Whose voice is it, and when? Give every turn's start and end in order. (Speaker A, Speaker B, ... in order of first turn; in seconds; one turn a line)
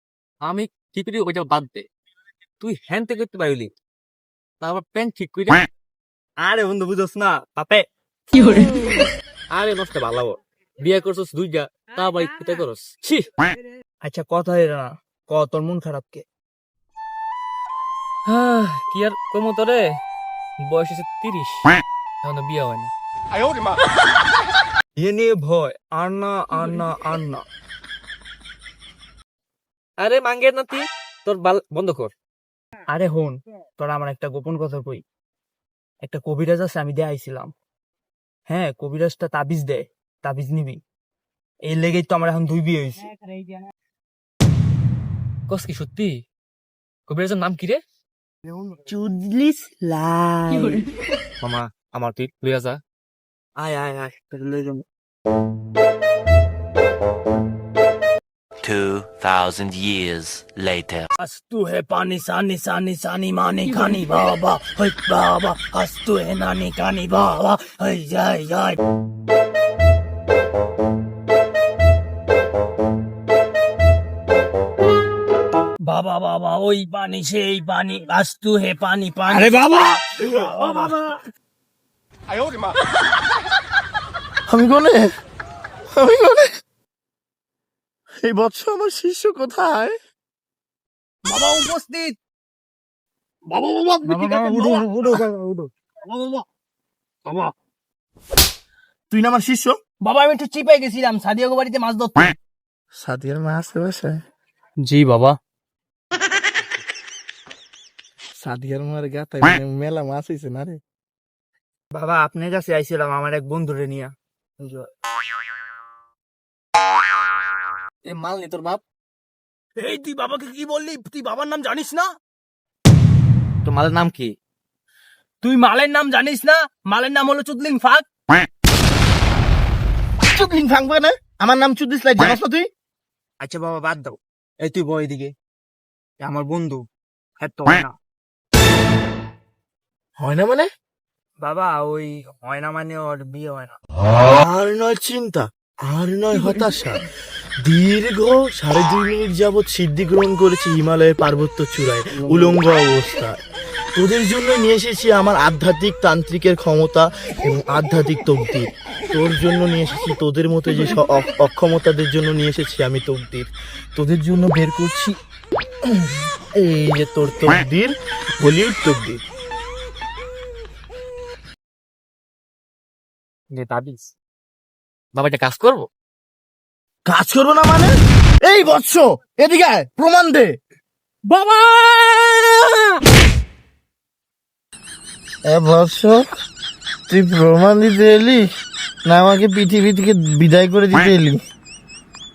Speaker A: 0.4-1.9
Speaker A: 2.6-3.7
Speaker A: 4.6-5.7
Speaker B: 6.4-7.8
Speaker A: 9.5-12.9
Speaker B: 14.0-16.2
Speaker A: 18.3-19.9
Speaker A: 20.6-21.7
Speaker A: 22.2-22.9
Speaker B: 25.0-27.4
Speaker A: 30.0-32.1
Speaker B: 32.9-35.0
Speaker B: 36.0-37.5
Speaker B: 38.5-40.8
Speaker B: 41.7-43.1
Speaker A: 45.5-46.1
Speaker A: 47.1-47.8
Speaker B: 48.5-50.8
Speaker A: 51.4-52.8
Speaker B: 53.6-54.8
Speaker C: 58.6-61.1
Speaker B: 61.2-68.8
Speaker B: 75.8-81.0
Speaker D: 79.3-81.2
Speaker D: 84.5-85.1
Speaker D: 85.9-86.5
Speaker D: 88.2-90.0
Speaker B: 91.3-92.2
Speaker A: 93.5-94.0
Speaker B: 94.0-94.9
Speaker D: 94.0-95.7
Speaker A: 96.1-96.4
Speaker D: 99.1-99.8
Speaker B: 100.0-102.4
Speaker D: 103.0-104.2
Speaker A: 104.8-105.4
Speaker D: 108.4-110.8
Speaker B: 111.9-114.9
Speaker A: 118.1-118.8
Speaker B: 119.8-122.1
Speaker A: 123.7-124.3
Speaker B: 125.4-128.1
Speaker D: 130.3-132.7
Speaker B: 133.4-135.3
Speaker B: 136.2-136.8
Speaker B: 137.4-137.9
Speaker D: 140.2-140.7
Speaker B: 141.4-143.8
Speaker D: 144.3-147.1
Speaker D: 147.6-153.4
Speaker D: 154.0-165.2
Speaker D: 166.0-169.2
Speaker A: 173.5-174.1
Speaker A: 175.1-175.9
Speaker D: 177.1-180.6
Speaker D: 185.5-186.3
Speaker D: 187.1-188.5
Speaker D: 189.1-191.4